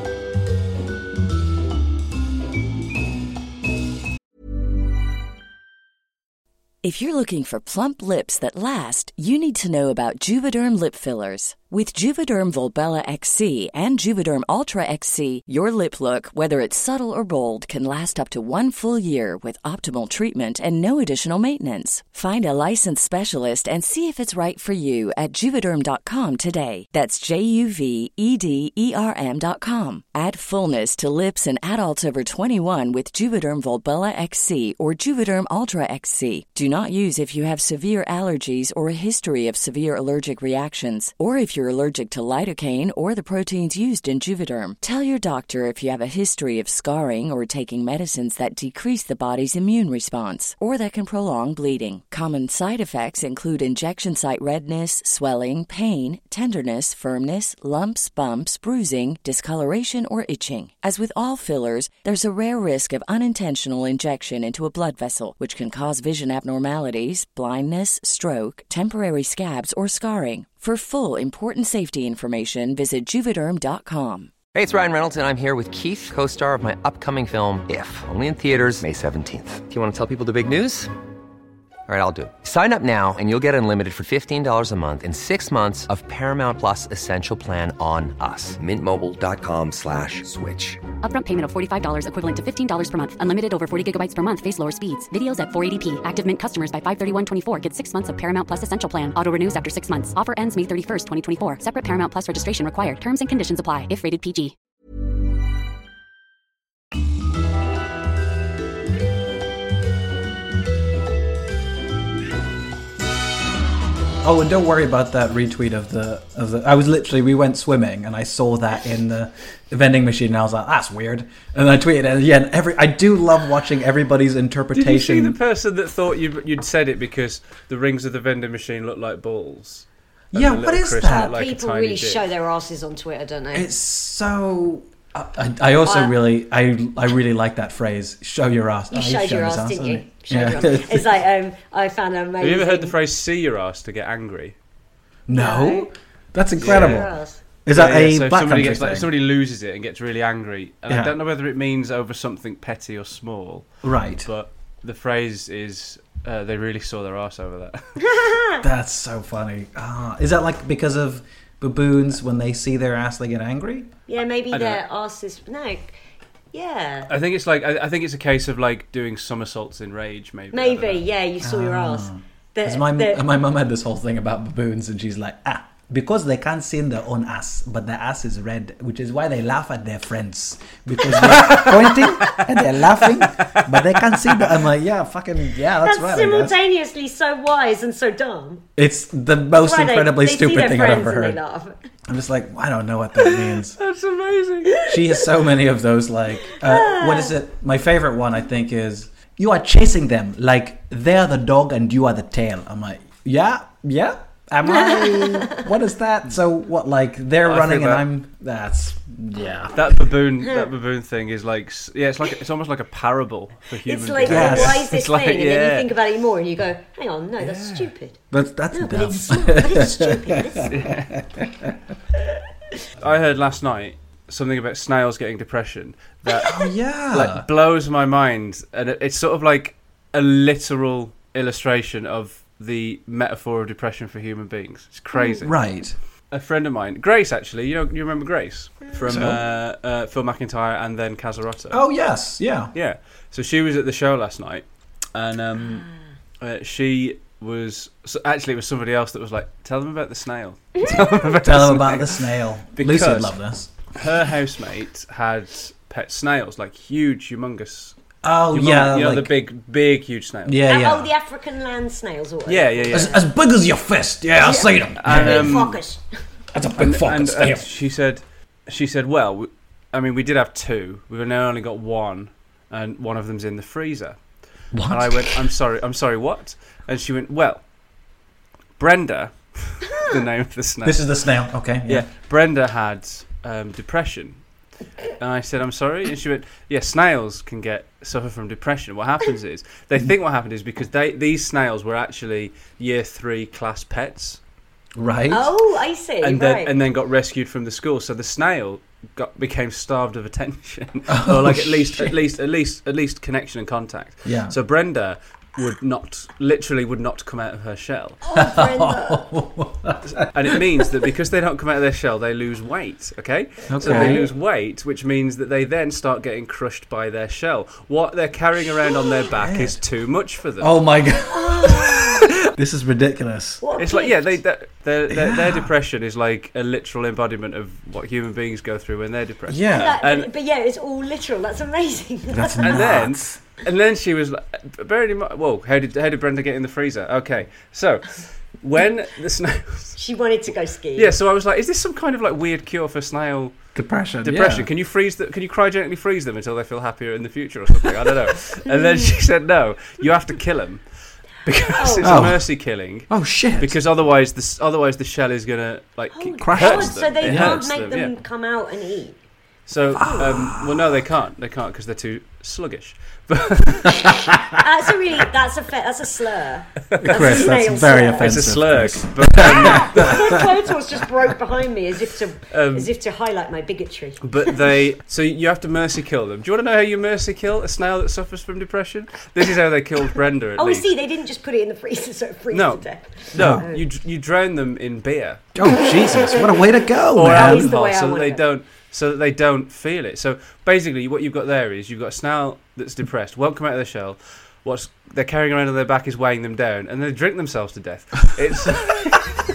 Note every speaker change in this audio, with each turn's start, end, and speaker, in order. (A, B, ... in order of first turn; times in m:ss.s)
0:06.8-1:14.3 A
1:14.5-1:20.9 B
1:21.9-1:30.8 B
1:31.0-1:44.6 C
1:54.2-2:05.4 D
2:04.7-2:12.3 E
2:10.3-2:11.3 D
2:11.1-2:13.7 F
2:13.5-2:21.1 D
2:15.8-2:16.1 F
2:18.9-2:22.9 F
2:22.4-2:24.6 E
2:25.3-2:27.1 D
2:25.3-2:25.9 F
2:26.6-2:27.4 F
2:26.6-2:27.1 E
2:27.6-2:29.1 D
2:27.7-2:33.7 E
2:30.9-2:31.1 D
2:33.8-2:34.3 D
2:34.2-2:38.0 E
2:38.0-2:38.6 F
2:38.6-2:43.9 D
2:44.1-2:46.0 F
2:44.5-2:44.8 E
2:46.5-2:47.1 F
2:47.1-2:51.1 E
2:50.5-2:53.2 F
2:51.4-3:06.6 D
3:01.1-3:02.4 E
3:03.2-3:04.6 E
3:05.8-3:08.6 F
3:08.8-3:11.4 D
3:09.6-3:11.8 F
3:12.1-3:13.8 D
3:13.2-3:14.8 E
3:14.8-3:30.0 D
3:16.5-3:17.4 F
3:24.6-3:25.7 F
3:27.4-3:28.1 E
3:29.7-3:35.9 E
3:33.9-3:38.2 F
3:34.2-3:34.9 D
3:37.4-3:37.9 E
3:38.3-3:41.7 D
3:38.7-3:40.7 F
3:40.7-3:41.2 E
3:43.0-3:55.6 E
3:46.3-3:47.4 D
3:55.4-3:56.0 D
3:56.3-4:01.8 E
3:59.0-3:59.4 D
4:01.7-4:02.7 D
4:02.7-4:05.9 E
4:05.6-4:05.9 F
4:06.4-4:13.4 E
4:10.8-4:11.1 F
4:11.3-4:13.7 D
4:13.9-4:18.0 E
4:18.2-4:19.3 D
4:18.5-4:20.6 E
4:20.5-4:21.1 D
4:20.7-4:23.2 F
4:22.5-4:23.2 E
4:22.9-4:25.8 D
4:24.4-4:26.0 F
4:25.0-4:25.8 E
4:26.5-4:27.7 D
4:26.8-4:34.2 E
4:34.7-4:35.5 D
4:34.9-4:37.6 E
4:38.8-4:41.1 E
4:40.8-4:42.1 D
4:41.9-4:44.4 E
4:45.2-4:54.4 E
4:55.0-4:55.5 D
4:55.3-4:56.8 F
4:56.2-5:08.2 E
5:01.1-5:02.1 D
5:04.2-5:04.6 D
5:08.2-5:09.3 F
5:08.3-5:10.9 D
5:10.1-5:20.8 E
5:13.7-5:14.2 D
5:13.8-5:14.3 F
5:19.3-5:19.8 D
5:20.6-5:23.6 D
5:21.3-5:22.3 F
5:23.6-5:24.4 F
5:23.8-5:30.3 E
5:25.1-5:25.7 D
5:29.5-5:30.0 D
5:29.7-5:32.8 F
5:32.3-5:33.4 D
5:32.6-5:40.0 E
5:40.0-5:41.1 F
5:41.0-5:43.6 E
5:43.8-5:44.7 D
5:44.2-5:50.8 E
5:48.7-5:49.1 F
5:51.4-5:58.1 E
5:51.6-5:52.2 F
5:52.0-5:52.5 D
5:53.1-5:53.8 D
5:56.1-5:59.2 F
5:56.4-5:57.6 D
5:59.7-6:04.1 E
6:00.0-6:01.0 D
6:04.1-6:04.5 D
6:04.5-6:08.4 F
6:06.9-6:07.4 E
6:07.0-6:10.4 D
6:08.2-6:10.5 E
6:09.4-6:14.3 F
6:12.5-6:12.9 E
6:14.2-6:20.9 E
6:20.6-6:23.8 F
6:22.5-6:25.4 E
6:23.4-6:23.6 D
6:25.6-6:27.7 D
6:27.1-6:39.4 E
6:27.3-6:28.4 F